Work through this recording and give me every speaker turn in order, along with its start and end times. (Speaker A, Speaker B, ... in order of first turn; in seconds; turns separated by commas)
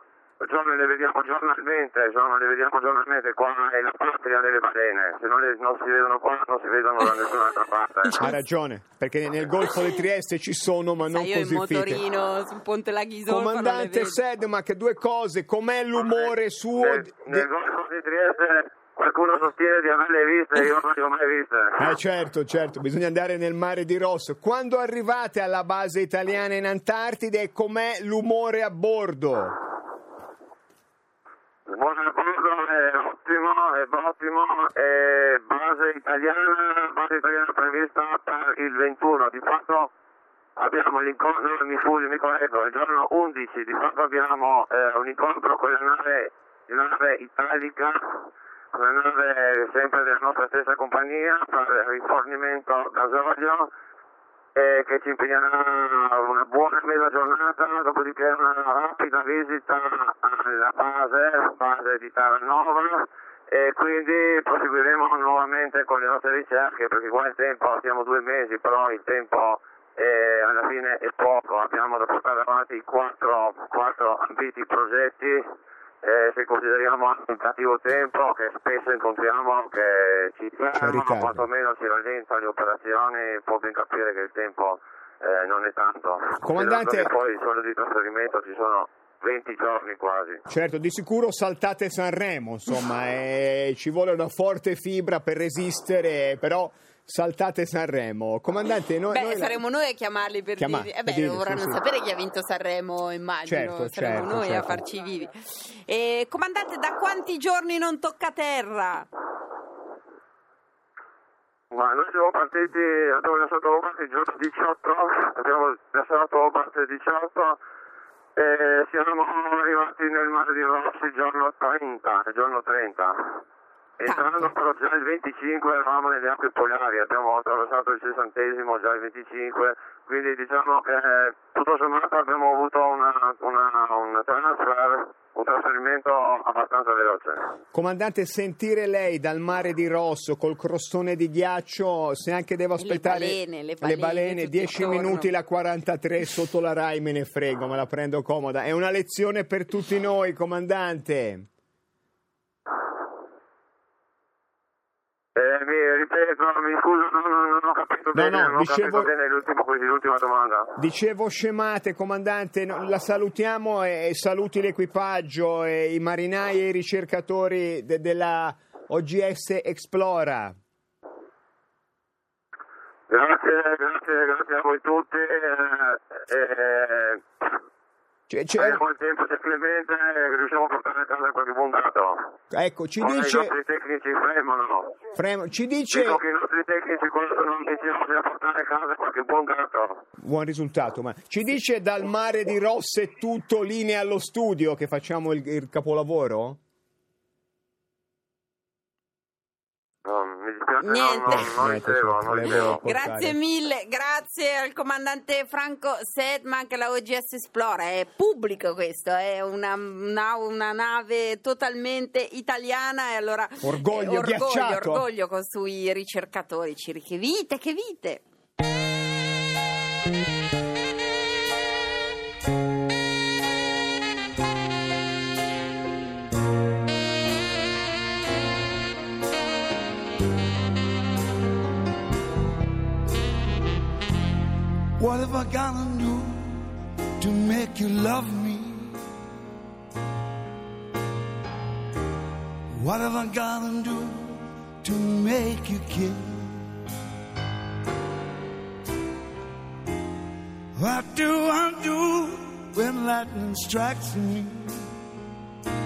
Speaker A: 0.4-8.2, Speaker B: 8.2-12.0, Speaker C: 11.0-14.2, Speaker B: 13.3-17.5, Speaker A: 16.1-21.9, Speaker B: 21.8-29.6, Speaker A: 31.7-39.9, Speaker A: 40.6-53.7, Speaker A: 54.5-75.5, Speaker A: 76.0-90.4, Speaker B: 80.7-81.4, Speaker B: 86.4-87.1, Speaker B: 90.5-99.6, Speaker C: 99.1-109.1, Speaker B: 100.6-101.8, Speaker B: 103.5-104.8, Speaker A: 111.7-117.6, Speaker A: 118.3-123.4, Speaker A: 124.0-137.4, Speaker C: 124.1-124.5, Speaker B: 137.7-151.5, Speaker C: 142.8-145.3, Speaker A: 155.3-160.7, Speaker B: 158.1-159.1, Speaker B: 160.8-170.6, Speaker A: 173.1-177.2, Speaker B: 178.3-178.8, Speaker A: 178.6-182.2, Speaker B: 182.5-183.5, Speaker A: 183.0-185.0, Speaker B: 185.1-186.2, Speaker A: 185.9-190.0, Speaker B: 190.2-196.6, Speaker A: 200.0-202.8, Speaker C: 200.8-201.6, Speaker B: 201.3-203.4, Speaker C: 202.4-218.2, Speaker B: 213.6-215.1, Speaker D: 235.0-239.0, Speaker D: 242.7-246.6, Speaker D: 250.8-254.9